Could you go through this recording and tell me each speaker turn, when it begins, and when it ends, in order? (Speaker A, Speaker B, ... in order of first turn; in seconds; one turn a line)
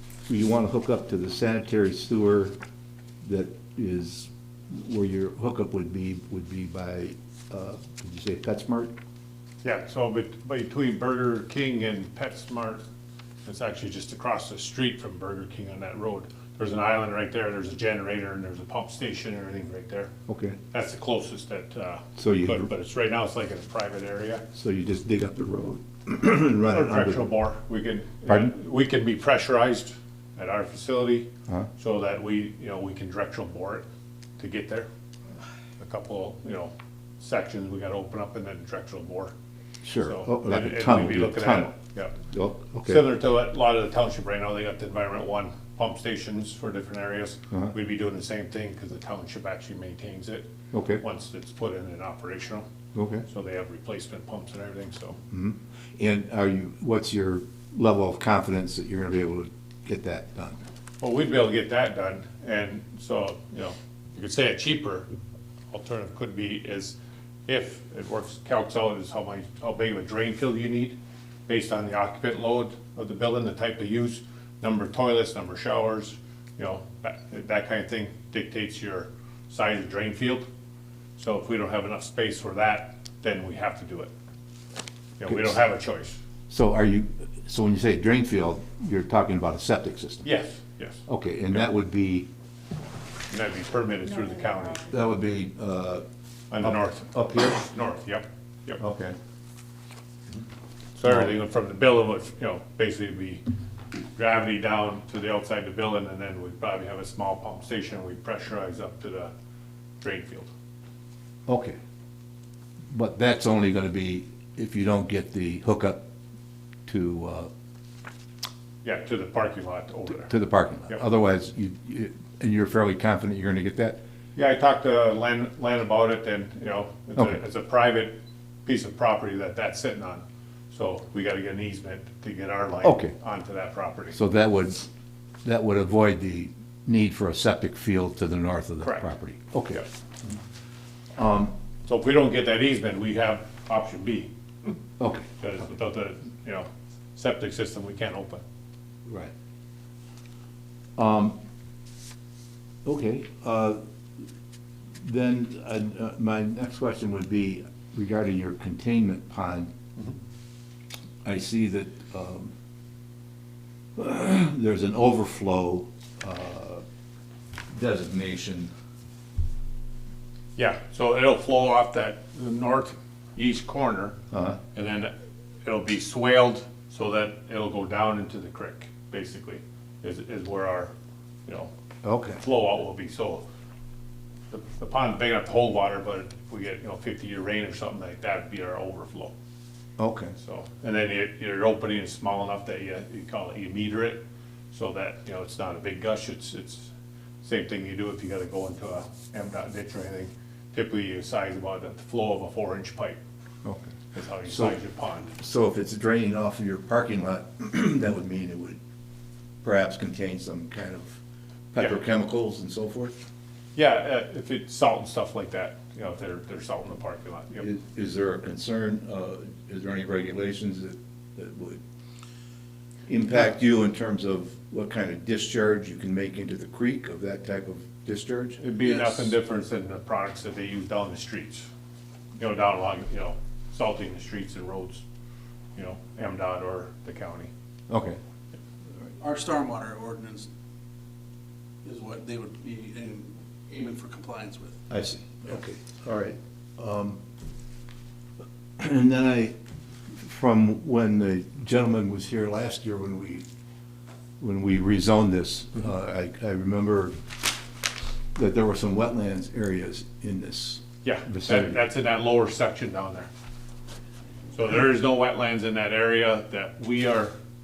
Speaker A: 0.3-2.6
Speaker A: 3.2-8.9
Speaker B: 9.6-12.8
Speaker B: 13.4-20.1
Speaker A: 20.3-20.6
Speaker B: 20.7-24.4
Speaker A: 22.2-22.7
Speaker A: 24.5-27.3
Speaker B: 26.7-33.9
Speaker B: 34.4-34.9
Speaker B: 35.8-39.3
Speaker A: 39.8-43.1
Speaker B: 40.0-42.2
Speaker B: 42.8-50.5
Speaker A: 50.7-51.0
Speaker B: 51.0-52.7
Speaker A: 53.0-53.2
Speaker B: 53.3-55.2
Speaker A: 55.3-60.6
Speaker B: 61.0-65.1
Speaker B: 65.7-67.0
Speaker B: 67.5-71.0
Speaker B: 71.5-80.5
Speaker B: 81.2-84.1
Speaker B: 85.2-86.2
Speaker A: 85.3-85.6
Speaker A: 86.5-90.3
Speaker B: 90.2-91.0
Speaker A: 91.1-92.3
Speaker B: 93.3-94.9
Speaker A: 94.9-96.0
Speaker B: 96.5-98.8
Speaker A: 96.6-97.7
Speaker A: 98.8-99.2
Speaker B: 101.0-109.3
Speaker A: 101.1-101.3
Speaker B: 110.0-110.5
Speaker A: 111.5-111.8
Speaker A: 112.9-116.1
Speaker A: 116.9-117.5
Speaker B: 118.8-120.3
Speaker A: 120.2-124.0
Speaker B: 124.4-134.2
Speaker A: 132.8-133.1
Speaker A: 134.1-134.9
Speaker A: 135.4-139.8
Speaker B: 138.8-139.1
Speaker A: 141.2-141.5
Speaker B: 141.8-144.8
Speaker A: 145.0-145.3
Speaker B: 145.4-148.4
Speaker A: 149.1-149.3
Speaker A: 151.0-151.4
Speaker A: 152.8-153.8
Speaker A: 155.0-159.7
Speaker A: 161.2-162.5
Speaker A: 164.0-166.8
Speaker A: 167.7-168.7
Speaker B: 170.6-174.2
Speaker A: 174.3-174.6
Speaker B: 174.7-175.1
Speaker B: 175.6-180.9
Speaker A: 182.0-182.4
Speaker B: 182.4-183.4
Speaker B: 184.5-189.3
Speaker A: 190.0-190.4
Speaker B: 190.4-196.9
Speaker B: 197.4-203.2
Speaker A: 203.7-204.8
Speaker B: 204.1-205.3
Speaker A: 205.3-208.8
Speaker A: 209.6-211.2
Speaker A: 211.7-213.2
Speaker B: 213.8-217.7
Speaker A: 217.6-221.8
Speaker A: 223.1-228.6
Speaker B: 228.6-231.7
Speaker C: 228.8-229.3
Speaker B: 232.4-235.0
Speaker B: 235.8-237.5
Speaker A: 237.9-238.2
Speaker C: 239.2-240.5
Speaker C: 241.8-244.8
Speaker A: 244.9-247.2
Speaker A: 248.8-249.6
Speaker A: 250.2-253.4
Speaker A: 254.4-257.2
Speaker A: 258.4-261.8
Speaker B: 261.0-263.3
Speaker B: 264.5-267.3